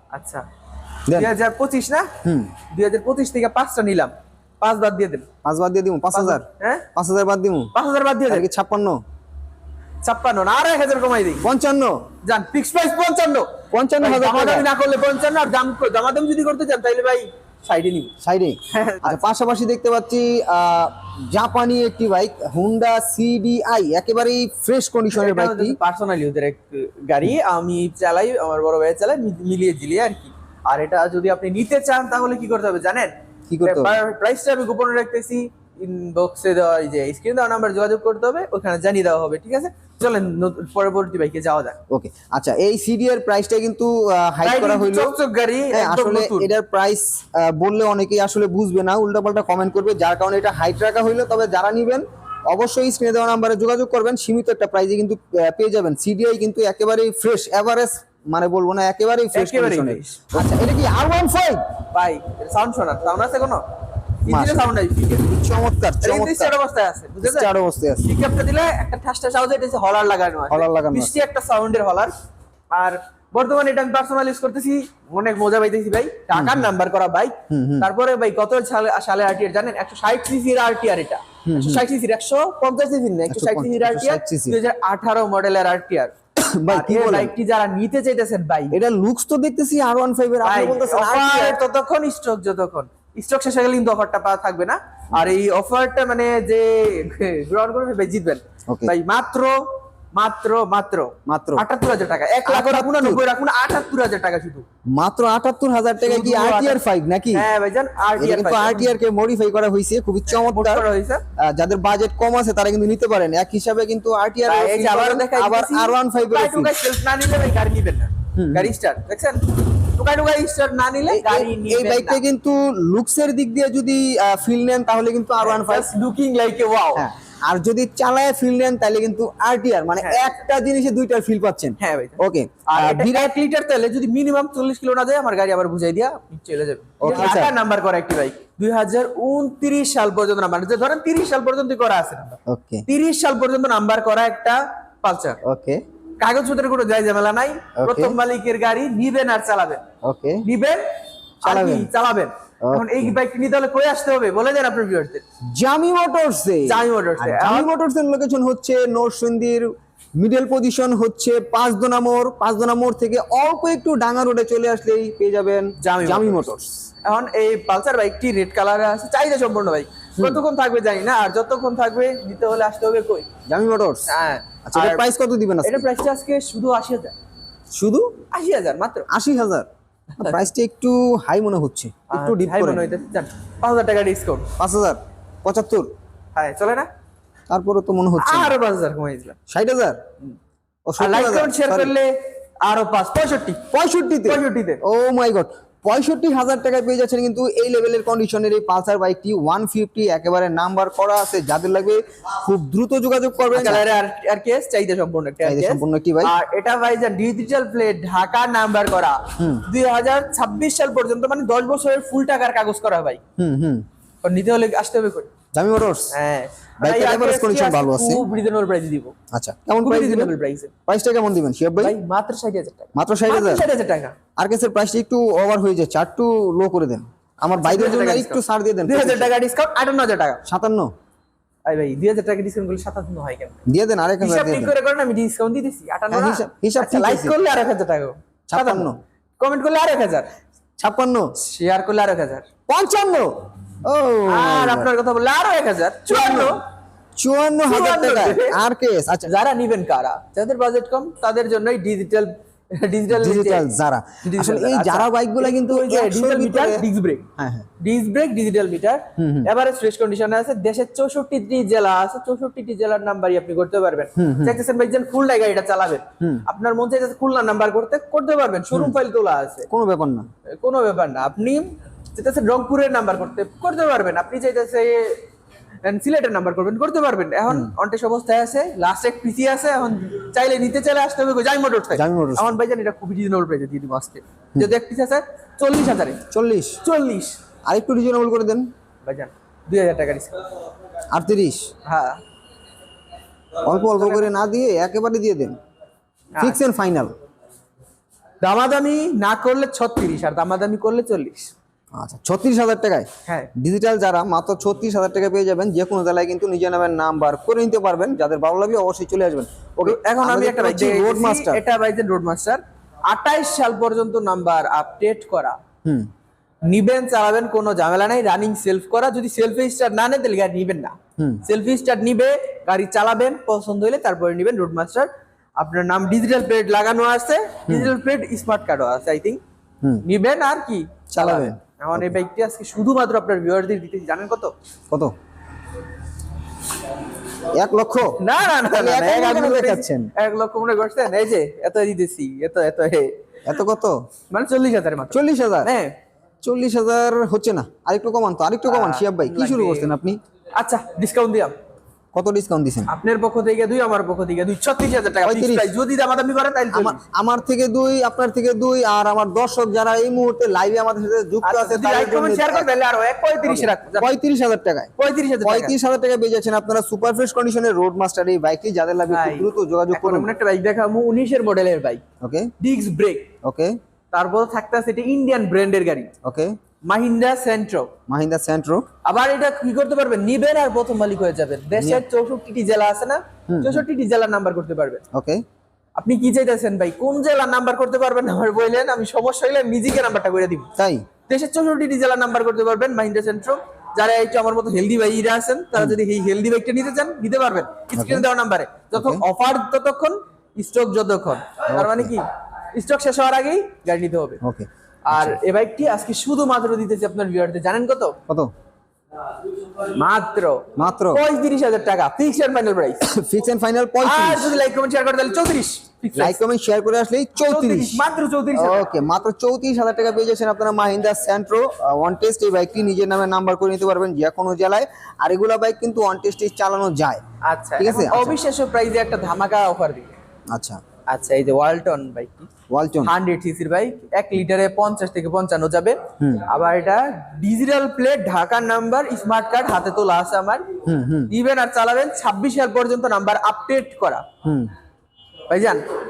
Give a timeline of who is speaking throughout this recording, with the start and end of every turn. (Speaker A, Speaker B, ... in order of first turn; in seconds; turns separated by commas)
Speaker A: 0.1-0.5, Speaker B: 1.1-1.3, Speaker A: 1.1-2.1, Speaker B: 2.2-2.5, Speaker A: 2.7-5.2, Speaker B: 5.4-7.7, Speaker A: 6.1-6.8, Speaker A: 7.7-8.4, Speaker B: 8.3-9.0, Speaker A: 10.0-11.4, Speaker B: 11.4-12.0, Speaker A: 12.2-18.1, Speaker B: 13.7-14.7, Speaker B: 18.2-25.8, Speaker A: 18.7-19.2, Speaker A: 25.1-33.1, Speaker B: 33.5-34.0, Speaker A: 33.6-41.8, Speaker B: 41.9-45.1, Speaker A: 44.4-46.5, Speaker B: 45.7-61.6, Speaker A: 59.3-60.4, Speaker A: 61.9-63.6, Speaker A: 64.2-65.3, Speaker B: 64.3-66.5, Speaker A: 66.0-67.5, Speaker B: 67.2-68.1, Speaker A: 68.0-72.1, Speaker B: 70.5-71.2, Speaker A: 72.7-86.1, Speaker B: 76.3-76.7, Speaker B: 77.5-77.9, Speaker B: 81.4-81.8, Speaker B: 83.3-84.6, Speaker B: 86.4-87.3, Speaker A: 86.7-88.7, Speaker B: 88.7-91.6, Speaker A: 90.4-99.6, Speaker B: 98.7-98.9, Speaker A: 100.1-104.6, Speaker B: 101.2-101.6, Speaker B: 102.4-103.2, Speaker B: 104.9-107.5, Speaker A: 106.0-106.8, Speaker A: 107.3-108.9, Speaker B: 108.2-110.8, Speaker A: 110.3-111.2, Speaker B: 111.4-116.8, Speaker A: 114.5-122.2, Speaker B: 118.3-118.7, Speaker B: 121.1-125.9, Speaker A: 125.4-127.0, Speaker B: 127.0-133.3, Speaker A: 130.0-130.3, Speaker A: 131.8-145.4, Speaker B: 137.0-137.6, Speaker B: 142.5-142.8, Speaker B: 145.4-145.8, Speaker A: 146.2-149.8, Speaker B: 147.8-148.2, Speaker B: 150.0-150.4, Speaker A: 150.4-150.8, Speaker A: 151.4-155.2, Speaker B: 151.4-151.9, Speaker B: 152.6-153.1, Speaker B: 155.5-166.7, Speaker A: 156.7-157.7, Speaker A: 165.8-166.5, Speaker A: 167.0-173.2, Speaker B: 173.5-174.1, Speaker A: 174.1-175.1, Speaker B: 174.7-175.8, Speaker A: 175.6-177.1, Speaker B: 177.7-178.1, Speaker A: 178.3-179.1, Speaker B: 179.1-179.7, Speaker A: 180.2-180.4, Speaker B: 180.2-182.8, Speaker A: 182.1-184.5, Speaker B: 184.6-185.9, Speaker A: 186.3-186.9, Speaker B: 187.5-188.6, Speaker A: 188.2-189.3, Speaker B: 189.5-190.0, Speaker B: 190.9-191.9, Speaker A: 191.0-192.1, Speaker A: 192.6-193.6, Speaker B: 193.7-203.8, Speaker A: 194.2-194.8, Speaker A: 203.5-213.2, Speaker B: 205.4-206.3, Speaker B: 209.4-209.6, Speaker B: 213.4-213.8, Speaker A: 214.2-215.3, Speaker B: 215.5-216.1, Speaker A: 216.1-219.1, Speaker B: 216.8-218.2, Speaker B: 219.3-220.3, Speaker A: 219.8-220.7, Speaker B: 220.9-222.0, Speaker A: 221.8-224.1, Speaker B: 222.9-223.6, Speaker B: 224.4-229.3, Speaker A: 227.5-230.4, Speaker B: 230.4-230.9, Speaker A: 231.7-233.6, Speaker B: 233.7-234.7, Speaker A: 234.2-240.3, Speaker B: 236.1-237.3, Speaker B: 238.5-239.0, Speaker B: 240.8-241.3, Speaker A: 241.4-242.4, Speaker B: 242.7-244.9, Speaker A: 244.3-246.6, Speaker B: 246.1-246.6, Speaker B: 247.2-249.3, Speaker A: 247.7-248.6, Speaker A: 249.2-253.7, Speaker B: 253.1-256.8, Speaker A: 254.2-257.2, Speaker B: 257.4-257.6, Speaker A: 257.8-269.7, Speaker B: 259.2-259.5, Speaker B: 264.2-264.6, Speaker B: 269.7-270.3, Speaker A: 270.6-275.2, Speaker A: 275.8-286.2, Speaker B: 281.9-282.5, Speaker B: 286.3-286.8, Speaker A: 286.8-287.4, Speaker B: 287.6-288.7, Speaker A: 289.1-290.3, Speaker B: 291.1-291.7, Speaker A: 291.8-292.2, Speaker B: 293.6-295.6, Speaker A: 294.0-294.3, Speaker B: 296.4-297.1, Speaker A: 298.4-301.5, Speaker B: 301.9-311.6, Speaker A: 309.8-315.6, Speaker A: 316.7-320.9, Speaker A: 321.4-329.4, Speaker A: 330.0-334.5, Speaker B: 331.1-332.2, Speaker B: 337.5-340.1, Speaker A: 338.2-343.1, Speaker B: 343.4-344.0, Speaker A: 344.3-345.9, Speaker B: 345.1-345.7, Speaker B: 346.4-350.2, Speaker A: 348.7-349.9, Speaker A: 350.6-351.5, Speaker B: 352.1-352.9, Speaker A: 352.9-357.0, Speaker B: 355.2-355.7, Speaker B: 356.7-362.7, Speaker A: 361.4-364.1, Speaker B: 363.4-364.9, Speaker A: 365.0-365.7, Speaker B: 365.4-370.3, Speaker A: 369.1-372.0, Speaker B: 372.2-372.5, Speaker A: 372.6-373.3, Speaker B: 373.4-373.8, Speaker A: 374.1-376.1, Speaker B: 376.2-376.5, Speaker A: 376.9-377.9, Speaker B: 378.1-378.9, Speaker A: 379.0-385.0, Speaker B: 381.8-382.0, Speaker B: 383.5-383.8, Speaker B: 385.1-385.4, Speaker A: 386.0-390.7, Speaker B: 390.8-391.1, Speaker A: 391.3-404.4, Speaker B: 397.9-398.2, Speaker B: 398.9-399.2, Speaker B: 401.7-402.1, Speaker B: 404.4-405.4, Speaker A: 405.1-408.1, Speaker A: 409.8-413.0, Speaker B: 410.8-411.2, Speaker B: 413.0-414.6, Speaker A: 414.0-416.4, Speaker B: 416.1-418.0, Speaker A: 417.4-418.9, Speaker B: 418.5-427.2, Speaker A: 427.4-430.1, Speaker B: 427.8-428.4, Speaker B: 430.5-430.8, Speaker A: 431.1-432.5, Speaker B: 432.7-433.1, Speaker A: 433.0-440.6, Speaker B: 436.2-436.4, Speaker B: 440.8-441.3, Speaker A: 441.3-444.2, Speaker B: 444.4-444.7, Speaker A: 445.5-445.8